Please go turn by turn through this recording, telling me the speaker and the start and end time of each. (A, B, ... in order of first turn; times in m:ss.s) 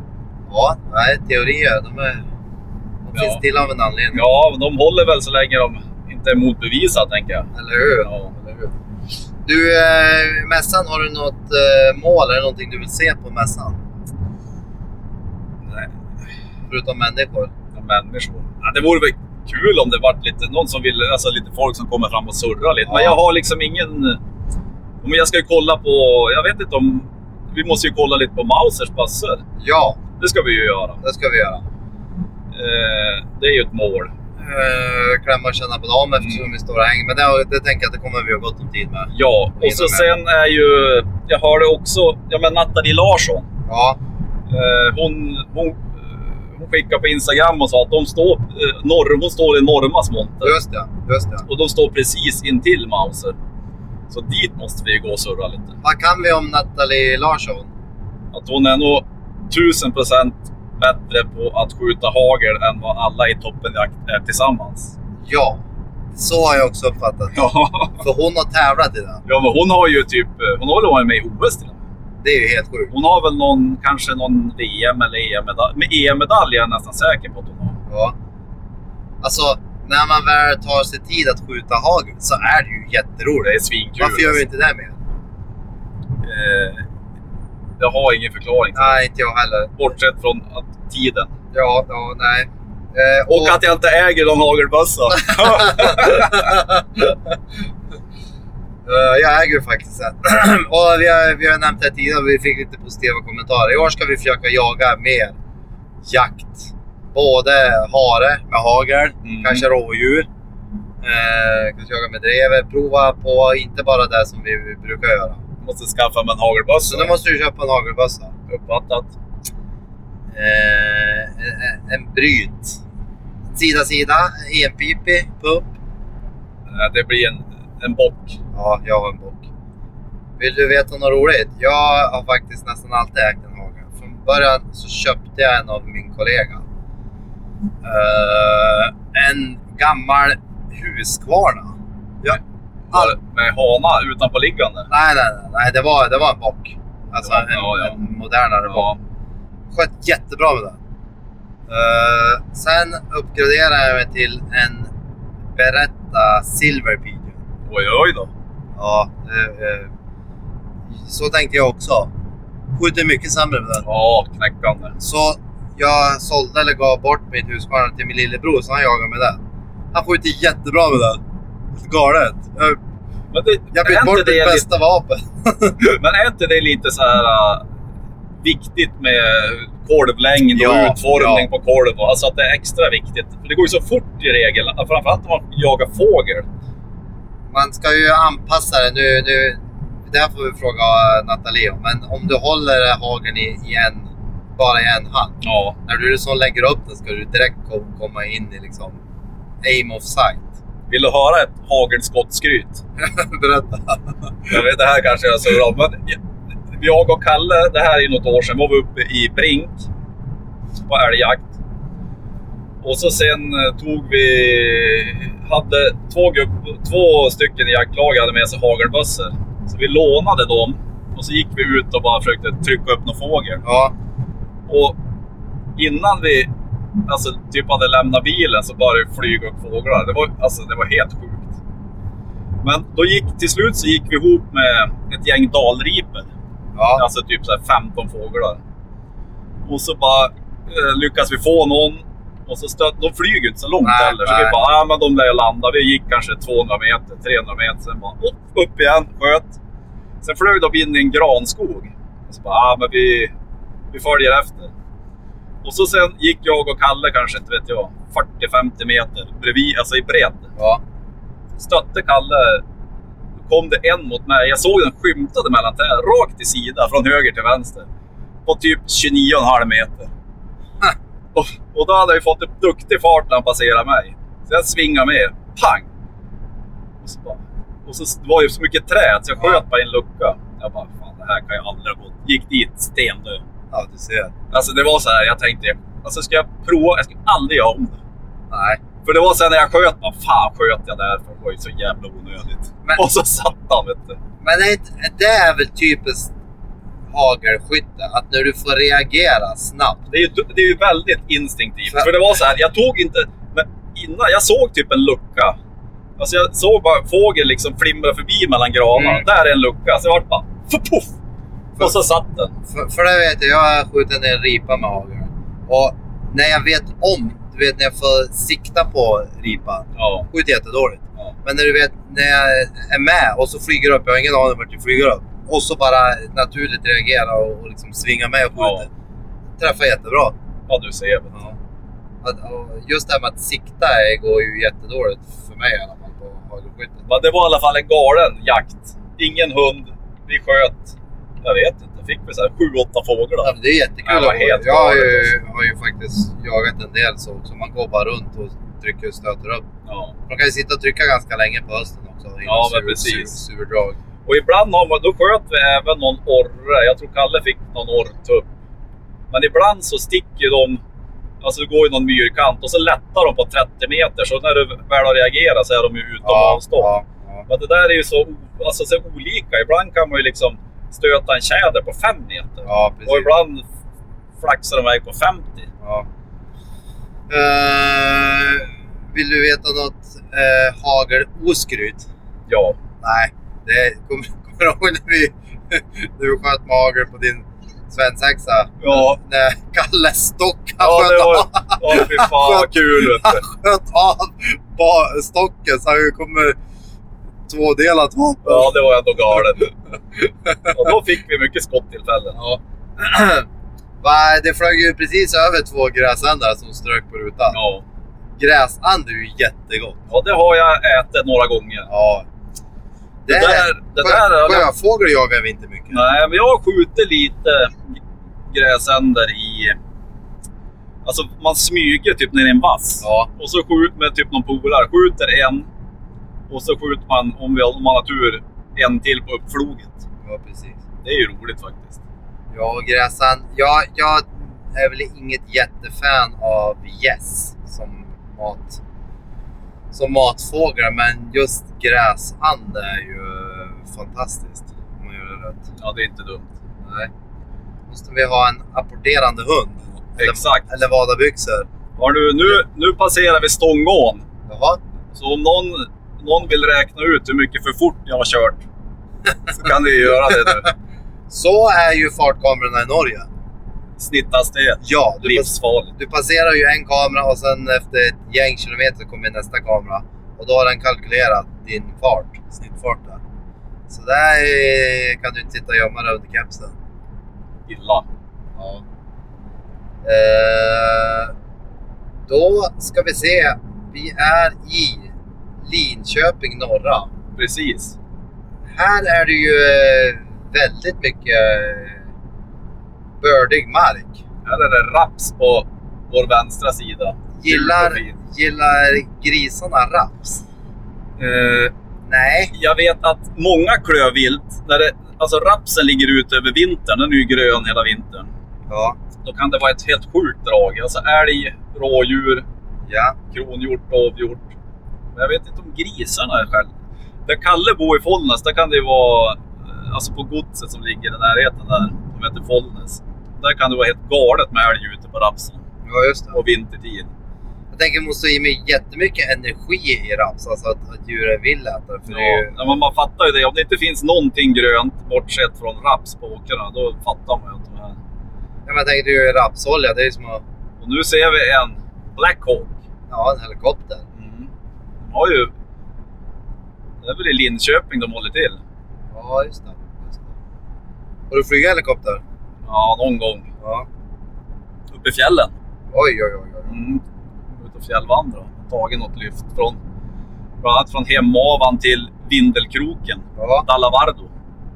0:00.5-0:02.2 A
0:03.0-0:04.2 A
0:03.2-0:03.4 B
0:04.1-0:07.5 B
0:07.5-0:08.7 A
0:08.0-0:08.4 B
0:09.5-0:13.8 A
0:16.7-0:17.5 A
0:17.7-0:24.2 B
0:22.9-0:23.2 A
0:25.0-0:29.4 B
0:29.6-0:30.0 A
0:30.2-0:31.0 B
0:31.0-0:31.6 A
0:32.5-0:34.1 B
0:34.4-0:40.1 A
0:36.2-0:36.5 B
0:39.1-0:43.5 B
0:43.7-0:44.0 A
0:44.5-0:50.6 B
0:50.4-0:51.5 A
0:51.5-0:53.4 B
0:54.1-0:55.8 B
0:55.8-0:57.7 A
0:58.3-1:04.9 B
1:05.2-1:05.6 A
1:06.1-1:07.4 A
1:07.3-1:08.0 B
1:08.0-1:09.2 A
1:09.3-1:11.8 B
1:12.2-1:12.9 A
1:12.9-1:17.8 B
1:17.9-1:18.2 A
1:19.2-1:25.0 A
1:23.4-1:24.4 B
1:26.2-1:26.8 B
1:27.8-1:29.0 B
1:28.8-1:29.8 A
1:29.8-1:31.3 B
1:31.5-1:33.6 A
1:33.3-1:36.5 B
1:35.2-1:37.1 A
1:38.9-1:45.4 A
1:46.0-1:50.3 A
1:49.2-1:49.7 B
1:51.0-1:55.4 A
1:55.6-1:57.1 B
1:56.9-1:58.3 A
1:58.5-1:59.1 B
2:00.3-2:02.8 A
2:03.5-2:05.7 A
2:06.7-2:08.4 B
2:08.5-2:09.4 A
2:10.4-2:16.6 A
2:17.8-2:22.4 A
2:22.9-2:24.9 B
2:24.9-2:28.9 A
2:27.2-2:28.0 B
2:28.6-2:29.0 B
2:29.7-2:30.8 A
2:31.7-2:34.9 A
2:35.6-2:37.4 A
2:37.7-2:38.3 B
2:38.8-2:39.9 A
2:41.0-2:42.1 A
2:42.8-2:43.8 A
2:43.8-2:45.0 B
2:45.0-2:49.4 A
2:49.9-2:51.2 A
2:51.8-2:52.8 A
2:53.3-2:54.7 B
2:53.7-2:55.8 A
2:55.8-2:57.6 B
2:58.4-3:06.5 B
3:00.5-3:01.5 A
3:07.5-3:19.0 A
3:15.4-3:15.8 B
3:19.6-3:20.5 A
3:20.9-3:22.8 B
3:23.0-3:24.6 A
3:24.5-3:26.2 B
3:26.7-3:29.9 B
3:30.9-3:31.5 B
3:32.8-3:43.6 B
3:43.6-3:43.9 A
3:44.7-3:45.0 B
3:45.8-3:46.5 B
3:47.1-3:51.5 B
3:52.6-3:56.3 B
3:56.8-3:57.0 A
3:57.0-3:58.6 B
3:59.7-4:09.6 B
4:03.8-4:04.6 A
4:10.2-4:13.3 B
4:13.9-4:14.7 B
4:15.6-4:20.5 B
4:21.6-4:22.6 B
4:23.5-4:27.9 B
4:28.5-4:30.1 B
4:31.4-4:35.9 B
4:37.0-4:43.4 B
4:43.7-4:44.3 A
4:44.5-4:48.0 B
4:48.5-4:48.8 A
4:49.0-4:54.2 B
4:54.4-4:56.3 A
4:57.1-5:00.0 A
5:00.1-5:05.6 B
5:06.2-5:11.1 B
5:09.0-5:09.2 A
5:11.8-5:12.6 B
5:12.7-5:28.9 A
5:20.0-5:20.3 B
5:28.6-5:28.9 B
5:29.6-5:30.3 A
5:30.7-5:31.4 B
5:32.2-5:37.0 A
5:37.1-5:43.5 B
5:43.4-5:49.7 A
5:44.0-5:45.3 B
5:49.9-5:50.2 B
5:50.3-5:54.0 A
5:52.4-5:53.4 B
5:54.3-5:58.5 B
5:59.3-6:00.8 B
6:01.4-6:06.9 B
6:06.2-6:07.4 A
6:07.5-6:13.6 B
6:12.7-6:13.3 A
6:14.4-6:15.7 B
6:15.8-6:16.1 A
6:17.3-6:22.1 A
6:22.5-6:22.8 B
6:23.0-6:36.6 A
6:28.8-6:29.2 B
6:30.8-6:33.4 B
6:37.5-6:38.7 A
6:38.4-6:42.4 B
6:42.3-6:43.5 A
6:44.0-6:47.6 A
6:47.5-6:47.8 B
6:48.4-6:50.0 A
6:50.1-6:51.9 B
6:51.9-6:52.3 A
6:53.3-6:56.0 A
6:53.3-6:54.7 B
6:55.9-6:58.0 B
6:58.5-6:59.8 B
7:01.0-7:05.7 B
7:03.0-7:03.3 A
7:06.5-7:10.0 B
7:10.2-7:10.8 A
7:11.0-7:12.0 B
7:12.5-7:18.8 A
7:19.9-7:25.6 A
7:25.8-7:26.5 B
7:26.8-7:27.1 A
7:27.9-7:31.7 A
7:30.2-7:30.7 B
7:32.0-7:34.2 B
7:34.5-7:34.8 A
7:35.1-7:38.6 B
7:39.6-7:40.7 B
7:40.3-7:40.6 A
7:41.3-7:43.3 A
7:44.0-7:45.9 B
7:44.8-7:53.2 A
7:53.9-7:56.7 A
7:57.7-7:58.1 B
7:58.6-7:58.8 A
8:00.0-8:01.3 A
8:02.3-8:05.1 A
8:05.6-8:07.1 A
8:07.4-8:08.0 B
8:08.7-8:12.1 A
8:13.2-8:14.2 A
8:14.5-8:18.2 B
8:17.4-8:20.4 A
8:21.2-8:21.7 B
8:22.1-8:22.5 A
8:22.5-8:28.3 B
8:28.7-8:29.0 A
8:29.2-8:32.4 B
8:32.9-8:33.2 A
8:33.3-8:34.4 B
8:35.2-8:36.7 B
8:37.3-8:45.6 B
8:45.9-8:46.4 A
8:46.3-8:47.1 B
8:47.7-8:52.6 A
8:52.1-8:58.0 B
8:58.7-9:00.4 A
9:00.8-9:02.7 B
9:03.1-9:04.0 A
9:04.2-9:04.5 B
9:05.0-9:05.5 B
9:07.0-9:08.6 B
9:09.1-9:10.2 A
9:11.3-9:12.2 A
9:12.7-9:13.5 B
9:13.6-9:13.9 A
9:14.9-9:15.5 B
9:15.9-9:16.7 A
9:16.7-9:17.0 B
9:17.5-9:19.8 B
9:20.6-9:24.3 B
9:23.4-9:23.6 A